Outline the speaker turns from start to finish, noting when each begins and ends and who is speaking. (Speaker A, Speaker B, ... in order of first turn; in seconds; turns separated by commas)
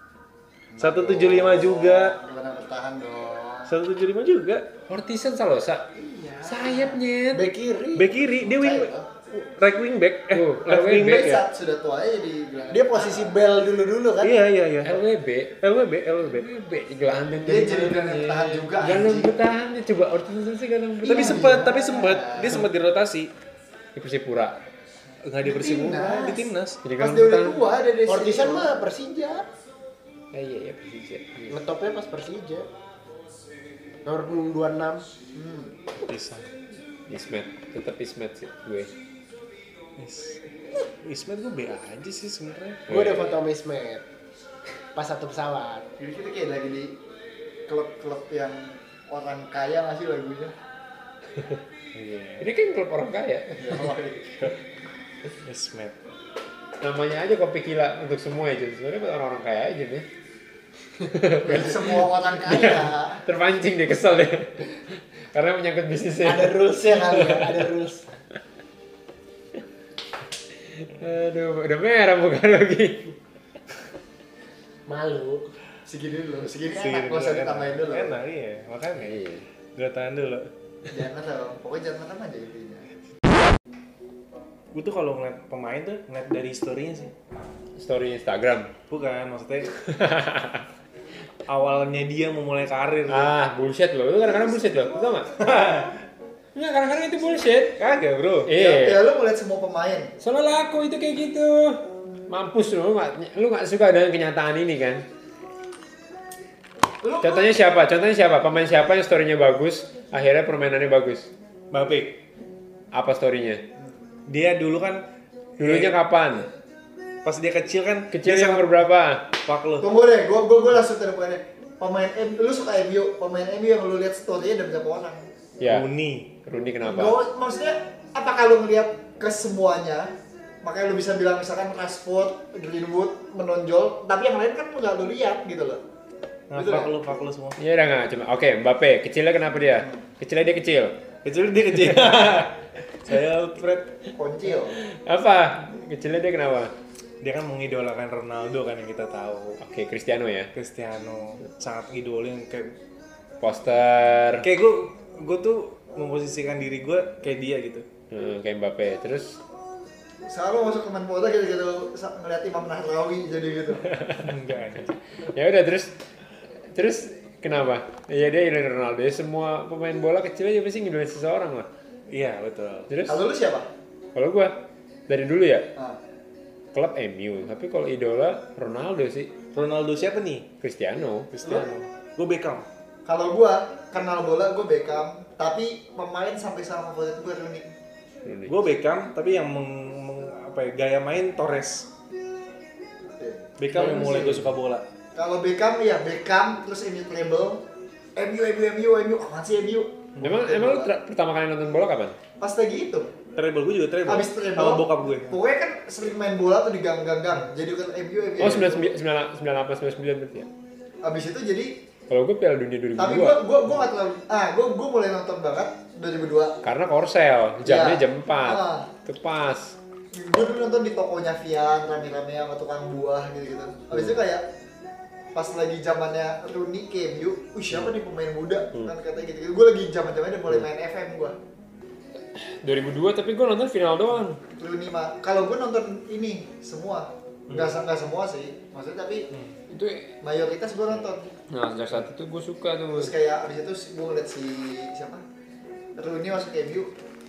Speaker A: 0.7-3.7, Speaker B: 0.8-2.2, Speaker B: 3.7-4.7, Speaker C: 4.9-5.8, Speaker A: 5.9-7.0, Speaker C: 6.4-7.5, Speaker D: 7.3-8.1, Speaker B: 8.0-11.4, Speaker A: 8.3-9.1, Speaker C: 10.3-11.3, Speaker A: 11.0-13.4, Speaker D: 12.7-14.3, Speaker B: 14.2-15.0, Speaker C: 14.8-15.6, Speaker B: 15.6-16.5, Speaker C: 16.3-21.6, Speaker A: 17.4-19.3, Speaker B: 21.0-23.3, Speaker A: 21.0-22.7, Speaker C: 23.9-24.6, Speaker B: 25.2-26.8, Speaker A: 25.4-28.7, Speaker C: 26.8-27.6, Speaker D: 28.1-29.4, Speaker C: 30.3-31.6, Speaker D: 31.5-32.7, Speaker D: 34.0-35.1, Speaker A: 35.3-35.7, Speaker B: 36.0-36.5, Speaker C: 37.1-38.9, Speaker B: 40.0-40.4, Speaker B: 41.0-42.9, Speaker C: 42.9-43.4, Speaker D: 42.9-44.0, Speaker D: 44.9-45.9, Speaker A: 46.0-47.0, Speaker A: 47.7-50.5, Speaker B: 51.9-52.5, Speaker C: 52.4-53.5, Speaker A: 53.5-54.5, Speaker B: 55.4-56.0, Speaker C: 56.8-60.1, Speaker C: 61.0-67.6, Speaker A: 61.4-63.2, Speaker D: 66.2-68.0, Speaker C: 70.6-73.1, Speaker D: 74.9-75.5, Speaker A: 75.8-78.2, Speaker B: 76.7-79.2, Speaker C: 79.0-79.4, Speaker B: 79.8-80.5, Speaker A: 80.9-82.9, Speaker B: 84.7-87.1, Speaker C: 87.8-88.7, Speaker B: 88.9-89.7, Speaker C: 89.8-90.7, Speaker B: 91.5-93.3, Speaker C: 93.1-95.7, Speaker A: 94.2-95.9, Speaker B: 95.4-95.9, Speaker C: 96.5-97.8, Speaker B: 97.8-98.5, Speaker C: 98.5-99.0, Speaker A: 98.5-100.1, Speaker C: 100.2-105.1, Speaker A: 107.0-107.6, Speaker C: 107.2-111.3, Speaker B: 111.7-112.2, Speaker C: 112.9-113.6, Speaker B: 114.3-116.0, Speaker C: 115.6-116.5, Speaker B: 117.2-118.8, Speaker C: 118.1-119.3, Speaker B: 119.4-119.9, Speaker A: 119.8-125.3, Speaker C: 125.6-125.9, Speaker B: 125.6-126.3, Speaker C: 126.4-127.2, Speaker A: 126.8-135.8, Speaker B: 136.5-137.6, Speaker A: 136.5-137.1, Speaker C: 137.6-141.0, Speaker B: 141.2-143.9, Speaker C: 141.8-142.2, Speaker A: 144.1-144.8, Speaker C: 144.7-146.7, Speaker B: 147.2-149.6, Speaker C: 149.6-150.5, Speaker B: 150.5-152.7, Speaker C: 153.4-154.5, Speaker B: 154.4-157.8, Speaker C: 158.1-159.4, Speaker A: 160.3-163.9, Speaker C: 163.9-164.2, Speaker B: 164.1-165.0, Speaker C: 165.2-166.0, Speaker C: 166.7-171.7, Speaker B: 172.1-172.9, Speaker C: 172.9-173.2, Speaker A: 173.0-173.7, Speaker C: 174.1-175.7, Speaker C: 176.7-179.3, Speaker B: 179.5-180.5, Speaker C: 180.6-181.3, Speaker B: 181.3-182.7, Speaker A: 183.0-187.7, Speaker C: 188.2-188.6, Speaker B: 188.5-191.9, Speaker A: 193.1-194.4, Speaker B: 193.6-194.8, Speaker A: 195.1-197.6, Speaker A: 198.2-200.9, Speaker C: 200.2-202.2, Speaker A: 202.4-203.1, Speaker B: 203.3-205.3, Speaker A: 204.1-208.9, Speaker C: 208.4-210.5, Speaker A: 211.0-211.8, Speaker C: 212.1-213.4, Speaker A: 213.0-216.6, Speaker C: 216.6-219.8, Speaker A: 217.6-218.9, Speaker A: 220.1-224.4, Speaker A: 225.3-231.4, Speaker C: 232.3-234.4, Speaker A: 234.6-239.3, Speaker B: 237.5-237.8, Speaker C: 239.7-240.2, Speaker A: 240.2-241.3, Speaker C: 241.5-243.1, Speaker A: 242.9-245.2, Speaker A: 245.9-246.9